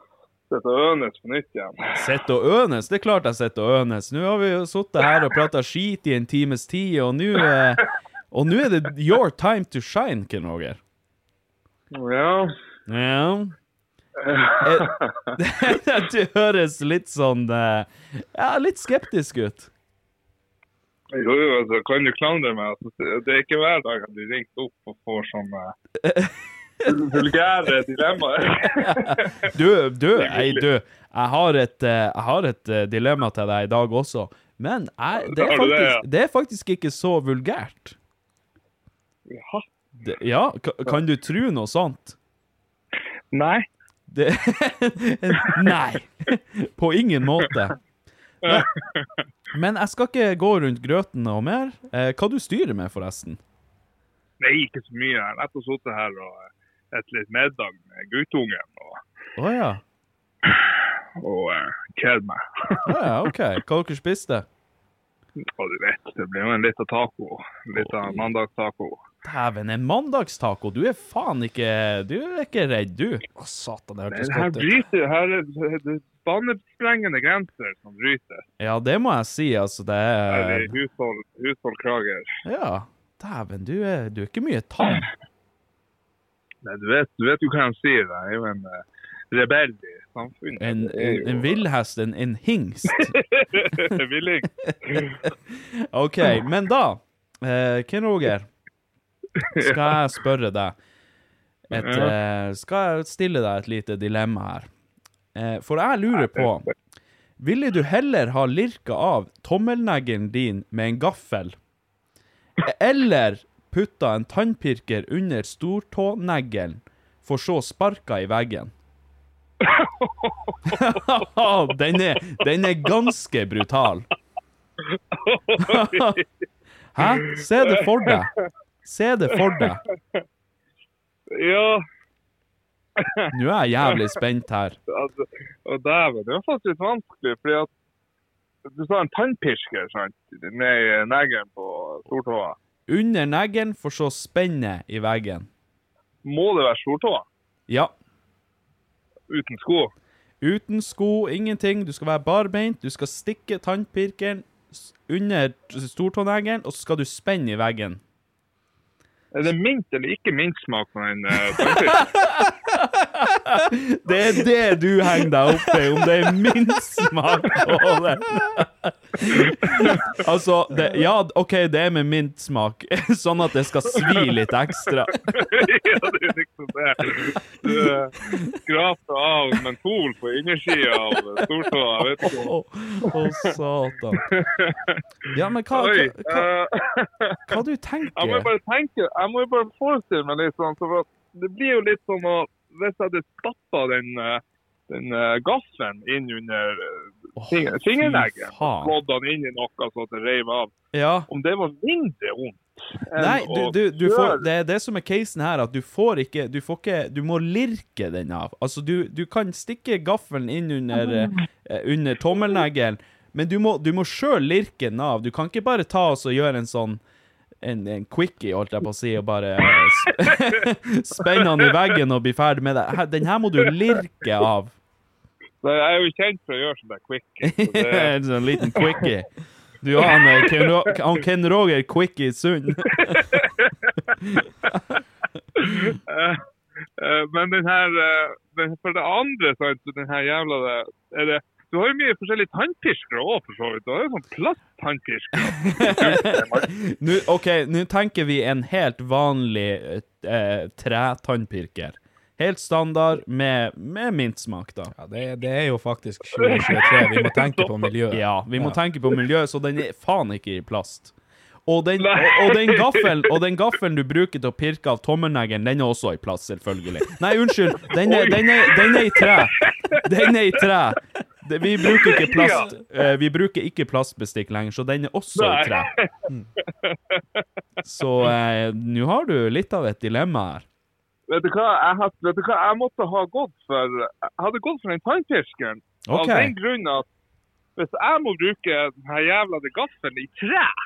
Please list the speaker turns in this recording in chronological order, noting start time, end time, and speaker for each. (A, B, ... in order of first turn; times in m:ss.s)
0:00.5-0:01.9 A
0:02.0-0:10.8 B
0:11.9-0:12.5 A
0:12.9-0:13.6 B
0:14.2-0:15.1 A
0:14.6-0:19.7 B
0:21.1-0:25.7 A
0:26.0-0:26.4 B
0:26.9-0:29.5 A
0:28.8-0:38.0 B
0:30.2-0:30.6 A
0:35.3-0:36.0 A
0:39.3-0:39.6 A
0:40.0-0:42.2 B
0:43.3-0:43.7 A
0:44.1-0:47.8 B
0:48.4-0:49.1 A
0:49.5-0:53.4 B
0:54.4-0:59.0 A
0:59.4-0:59.8 B
1:00.5-1:02.8 A
1:02.9-1:04.5 B
1:05.4-1:09.0 A
1:07.7-1:08.3 B
1:09.2-1:13.3 B
1:13.4-1:14.8 C
1:14.1-1:18.4 A
1:18.6-1:20.7 B
1:20.3-1:22.3 A
1:22.4-1:25.1 B
1:26.6-1:31.6 A
1:30.6-1:33.1 B
1:32.9-1:35.2 A
1:35.9-1:38.5 B
1:39.4-1:39.9 A
1:39.6-1:40.8 B
1:41.7-1:44.7 B
1:41.7-1:42.1 A
1:45.4-1:46.7 B
1:46.2-1:46.7 A
1:47.4-1:51.6 B
1:52.7-1:58.7 B
1:59.6-2:01.2 A
2:00.7-2:04.1 B
2:05.1-2:06.3 A
2:05.6-2:06.1 B
2:07.0-2:08.3 B
2:07.0-2:08.2 A
2:08.8-2:09.8 B
2:09.4-2:10.2 A
2:11.3-2:11.8 A
2:13.0-2:13.2 A
2:13.3-2:14.8 B
2:14.9-2:17.7 A
2:18.7-2:22.6 A
2:22.9-2:25.5 B
2:26.2-2:27.2 A
2:29.3-2:29.9 A
2:30.4-2:38.0 B
2:39.3-2:42.1 A
2:41.6-2:42.5 B
2:43.2-2:55.4 B
2:49.7-2:50.1 A
2:54.0-2:54.3 A
2:55.1-3:02.5 A
2:57.6-2:58.4 B
3:00.8-3:01.5 B
3:02.2-3:04.3 B
3:03.1-3:03.5 A
3:04.2-3:05.0 A
3:05.3-3:06.5 B
3:05.7-3:07.6 A
3:07.5-3:08.5 B
3:08.2-3:20.8 A
3:17.4-3:19.0 B
3:20.9-3:21.3 B
3:21.3-3:24.4 A
3:23.2-3:37.0 B
3:31.0-3:31.4 A
3:37.6-3:44.8 B
3:41.2-3:41.9 A
3:45.6-3:49.1 A
3:47.4-3:53.2 B
3:50.0-3:50.9 A
3:52.9-3:53.9 A
3:55.6-3:56.4 A
3:57.0-4:06.7 A
4:05.7-4:14.9 B
4:14.9-4:18.8 C
4:16.4-4:17.8 A
4:18.1-4:21.1 B
4:21.7-4:35.9 B
4:22.0-4:23.4 A
4:27.9-4:30.6 A
4:31.8-4:32.8 A
4:35.4-4:36.1 A
4:36.9-4:37.4 A
4:37.8-4:40.6 B
4:41.3-4:47.1 A
4:46.1-4:46.6 B
4:47.8-4:50.7 A